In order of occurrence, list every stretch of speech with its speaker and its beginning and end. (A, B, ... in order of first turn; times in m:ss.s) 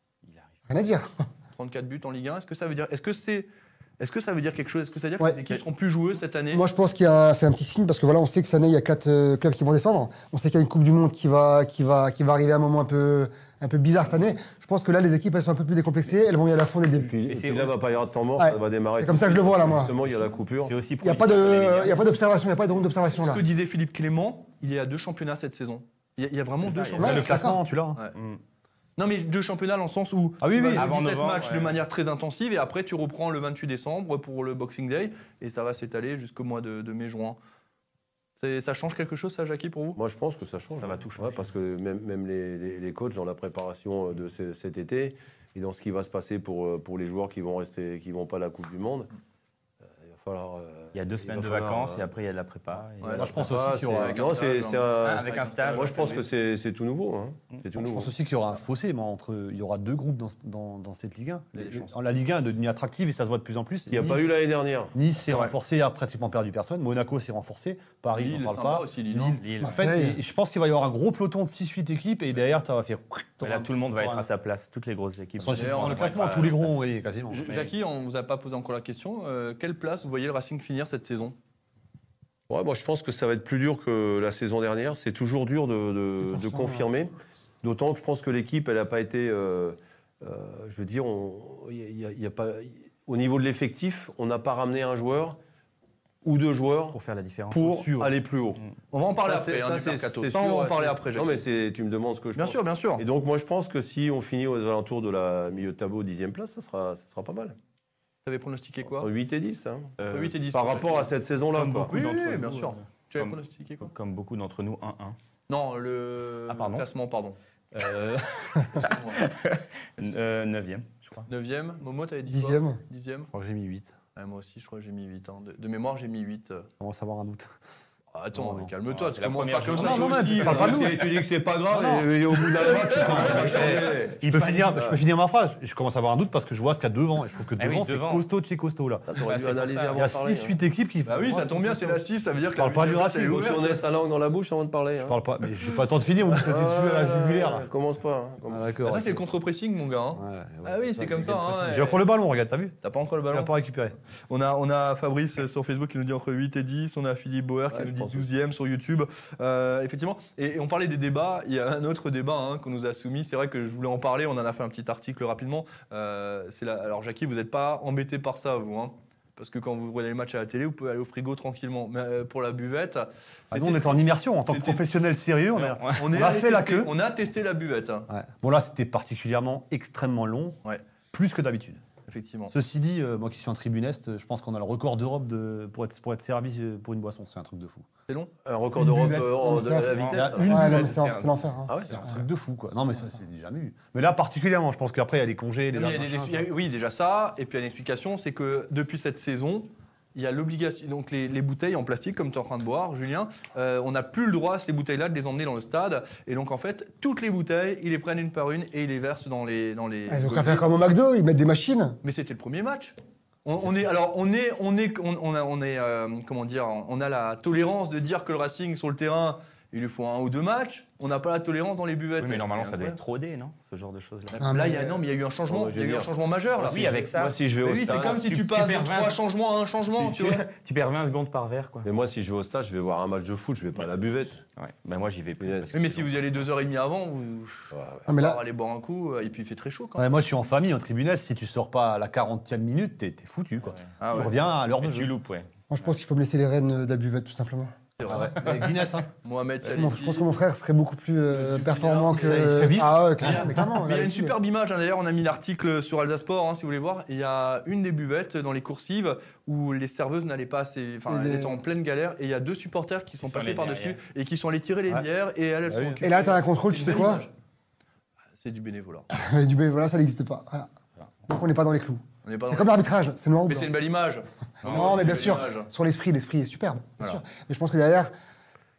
0:00.2-0:00.5 A
0:00.7-0:01.1 B
0:01.6-0:03.5 C
0:04.0-0:06.6 C
0:06.5-0:17.1 B
0:17.0-0:20.8 D
0:17.2-0:17.9 A
0:18.4-0:19.9 B
0:20.6-0:22.1 A
0:21.0-0:23.4 B
0:23.1-0:28.2 C
0:26.6-0:27.2 A
0:27.0-0:27.6 B
0:27.0-0:28.0 E
0:28.1-0:28.4 A
0:29.0-0:37.4 C
0:30.4-0:30.9 E
0:30.7-0:31.8 A
0:38.4-0:40.0 C
0:40.0-0:49.1 D
0:40.8-0:41.5 A
0:50.0-0:52.1 D
0:50.9-0:53.3 A
0:53.0-0:56.2 C
0:53.1-0:58.1 D
0:53.2-0:54.2 E
0:55.0-0:56.2 A
0:57.7-1:04.3 E
1:01.5-1:01.9 C
1:03.9-1:04.9 D
1:04.9-1:14.3 E
1:08.2-1:09.4 C
1:09.4-1:09.8 A
1:09.6-1:10.2 B
1:13.4-1:16.8 A
1:15.4-1:17.6 E
1:15.5-1:16.6 C
1:17.3-1:21.3 C
1:22.5-1:35.4 D
1:36.2-1:37.0 D
1:36.9-1:37.8 A
1:37.5-1:38.6 D
1:37.6-1:38.1 E
1:38.9-1:41.4 C
1:39.2-1:47.6 D
1:42.4-1:43.0 C
1:48.2-1:49.1 C
1:48.9-1:51.9 D
1:50.0-1:50.3 A
1:50.0-1:51.1 C
1:51.5-1:55.2 A
1:51.8-1:53.9 C
1:55.5-1:57.4 C
1:56.5-1:56.9 A
1:57.7-2:01.3 A
1:58.7-1:59.2 C
2:01.3-2:03.3 C
2:02.3-2:02.8 B
2:03.3-2:04.0 E
2:04.1-2:06.7 C
2:06.8-2:07.5 E
2:08.1-2:11.0 C
2:08.3-2:08.7 E
2:08.9-2:10.8 A
2:09.7-2:11.1 E
2:10.4-2:15.0 D
2:11.7-2:19.1 E
2:12.5-2:14.1 C
2:17.6-2:18.3 A
2:19.1-2:20.6 D
2:19.2-2:20.0 A
2:19.9-2:23.6 E
2:21.0-2:23.8 C
2:23.3-2:25.2 D
2:25.0-2:27.7 E
2:26.3-2:28.7 D
2:28.5-2:29.3 E
2:28.8-2:32.0 C
2:30.1-2:32.7 E
2:32.8-2:33.5 C
2:33.3-2:33.9 E
2:34.3-2:54.9 C
2:37.7-2:38.3 D
2:53.5-2:56.9 E
2:55.6-2:58.1 C
2:58.1-3:00.6 E
3:01.1-3:01.8 E
3:02.1-3:02.5 C
3:02.5-3:07.9 E
3:08.4-3:10.9 D
3:08.8-3:11.0 E
3:09.4-3:09.9 B
3:09.9-3:11.4 A
3:10.4-3:11.7 B
3:11.7-3:12.1 D
3:11.9-3:16.5 E
3:15.7-3:30.6 C
3:30.1-3:32.0 B
3:32.0-3:43.0 C
3:42.2-3:44.4 A
3:44.3-3:47.0 C
3:44.4-3:44.9 B
3:45.5-3:48.3 D
3:46.6-3:49.2 A
3:47.6-3:50.4 C
3:50.0-3:51.9 A
3:51.8-3:54.4 D
3:54.6-3:56.1 A
3:55.4-3:55.7 D
3:55.7-4:00.1 C
3:57.7-3:58.1 D
3:58.1-3:58.4 B
4:00.0-4:05.1 E
4:03.6-4:04.2 A
4:04.0-4:04.4 C
4:04.8-4:05.5 A
4:05.7-4:07.7 B
4:08.0-4:10.3 C
4:08.0-4:09.1 E
4:09.6-4:14.3 B
4:11.3-4:27.3 C
4:12.2-4:13.6 E
4:21.1-4:21.6 B
4:23.2-4:24.0 A
4:25.7-4:26.0 E
4:26.0-4:27.3 B
4:28.4-4:29.1 C
4:29.1-4:30.7 B
4:31.3-4:33.7 B
4:32.2-4:32.9 C
4:33.4-4:35.7 C
4:34.6-4:35.2 A
4:34.6-4:38.1 B